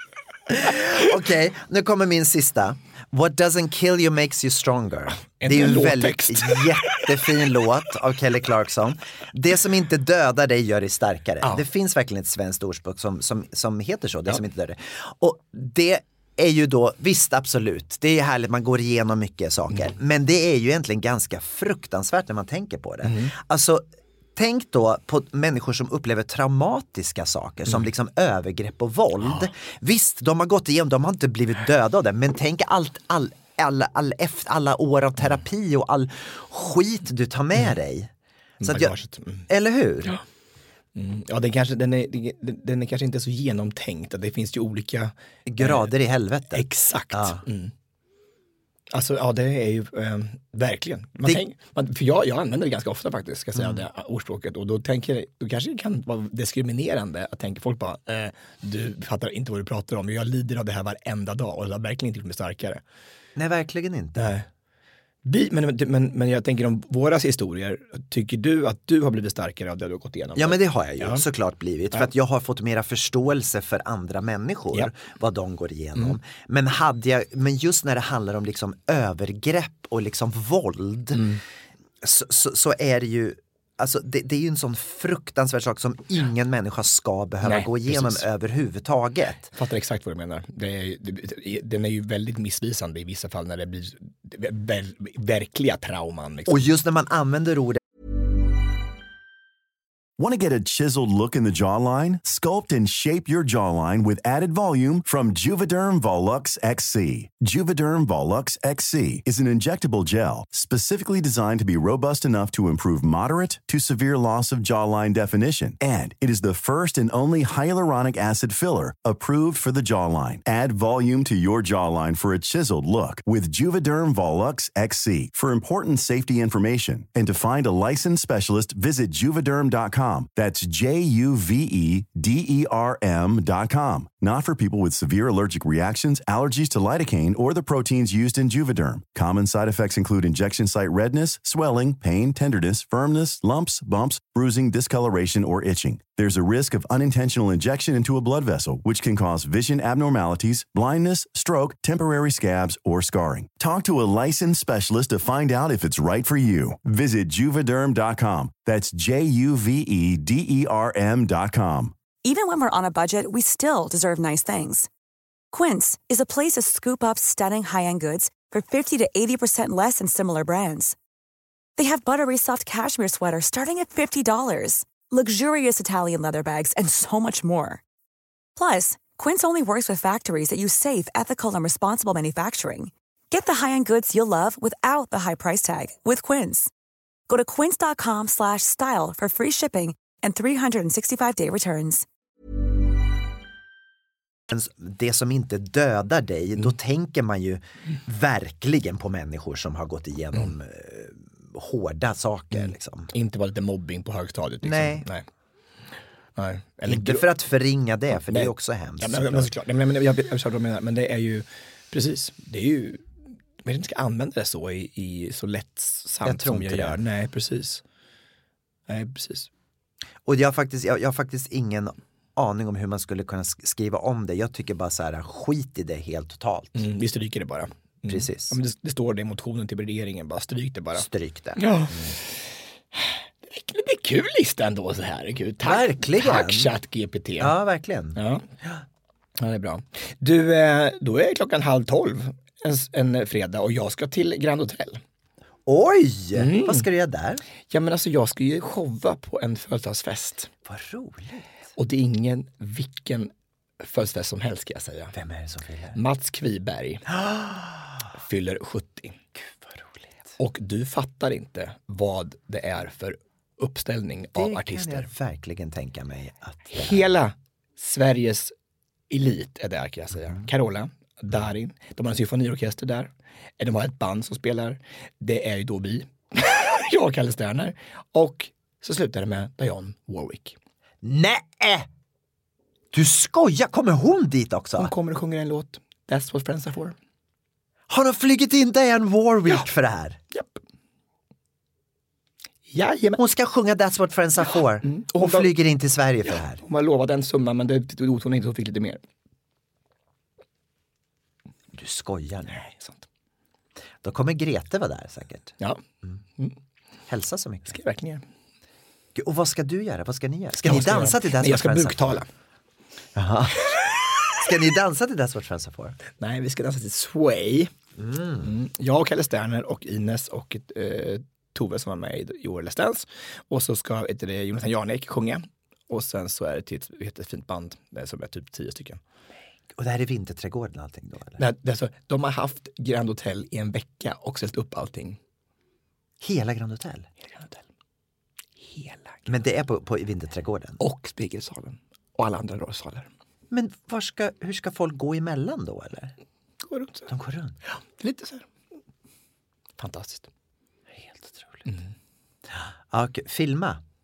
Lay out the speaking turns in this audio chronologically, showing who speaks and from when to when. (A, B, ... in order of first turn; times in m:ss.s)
0:00.5-0:23.8 A
0:05.4-0:07.5 B
0:23.0-0:23.3 B
0:24.4-0:38.1 A
0:38.6-0:39.5 B
0:38.6-0:39.0 A
0:39.5-0:40.2 A
0:41.0-0:45.9 B
0:45.5-0:47.4 A
0:46.5-0:47.7 B
0:48.9-1:02.8 B
0:53.6-0:53.8 A
1:03.4-1:04.4 A
1:04.2-1:04.5 B
1:05.2-1:11.2 B
1:10.4-1:21.3 A
1:21.2-1:21.4 B
1:22.0-1:29.5 A
1:27.4-1:28.2 B
1:29.5-1:36.7 B
1:36.5-1:37.8 A
1:40.2-2:41.9 C
2:42.2-2:44.9 D
2:45.5-2:51.0 D
2:51.8-2:57.8 D
2:58.6-3:06.7 D
3:07.3-3:12.1 D
3:14.5-3:23.1 A
3:22.5-3:25.2 B
3:24.6-3:25.1 A
3:26.4-3:27.3 B
3:26.8-3:29.5 A
3:28.2-3:33.1 B
3:33.6-3:37.8 B
3:36.2-3:37.0 A
3:38.9-3:39.5 B
3:40.2-3:46.8 A
3:46.8-3:57.6 B
3:48.1-3:48.6 A
3:51.0-3:52.2 A
3:55.6-3:56.7 A
3:57.4-3:58.8 A
3:58.2-3:58.4 B
3:59.4-4:05.0 B
4:05.7-4:07.4 A
4:06.4-4:06.8 B
4:07.7-4:10.5 B
4:10.6-4:11.5 A
4:11.8-4:15.2 B
4:15.1-4:16.0 A
4:15.9-4:17.1 B
4:17.2-4:17.9 A
4:18.2-4:19.2 B
4:19.6-4:20.1 A
4:20.4-4:25.1 B
4:24.4-4:27.1 A
4:26.7-4:28.5 B
4:29.1-4:40.6 B
4:41.0-4:41.9 A
4:42.9-4:44.9 A
4:44.8-4:47.0 B
4:47.9-4:50.2 A
4:50.3-4:50.6 B
4:52.7-4:53.2 B
4:53.2-4:56.6 A
4:54.8-4:55.6 B
4:56.6-4:59.0 B
5:01.7-5:02.6 A
5:02.5-5:03.1 B
5:04.0-5:06.2 A
5:07.1-5:07.8 A
5:07.7-5:08.2 B
5:09.2-5:12.2 A
5:10.6-5:12.3 B
5:13.2-5:16.0 A
5:16.2-5:17.7 B
5:18.0-5:18.5 A
5:18.4-5:29.0 B
5:29.8-5:31.4 A
5:31.4-5:35.2 B
5:36.2-5:37.1 A
5:37.3-5:37.6 B
5:38.7-5:39.3 B
5:39.3-5:40.8 A
5:40.8-5:43.1 B
5:43.5-5:46.1 A
5:46.6-5:47.1 B
5:47.1-5:47.6 A
5:47.6-5:48.5 B
5:49.8-5:50.3 B
5:51.0-5:51.7 A
5:51.7-5:51.9 B
5:52.6-5:53.8 A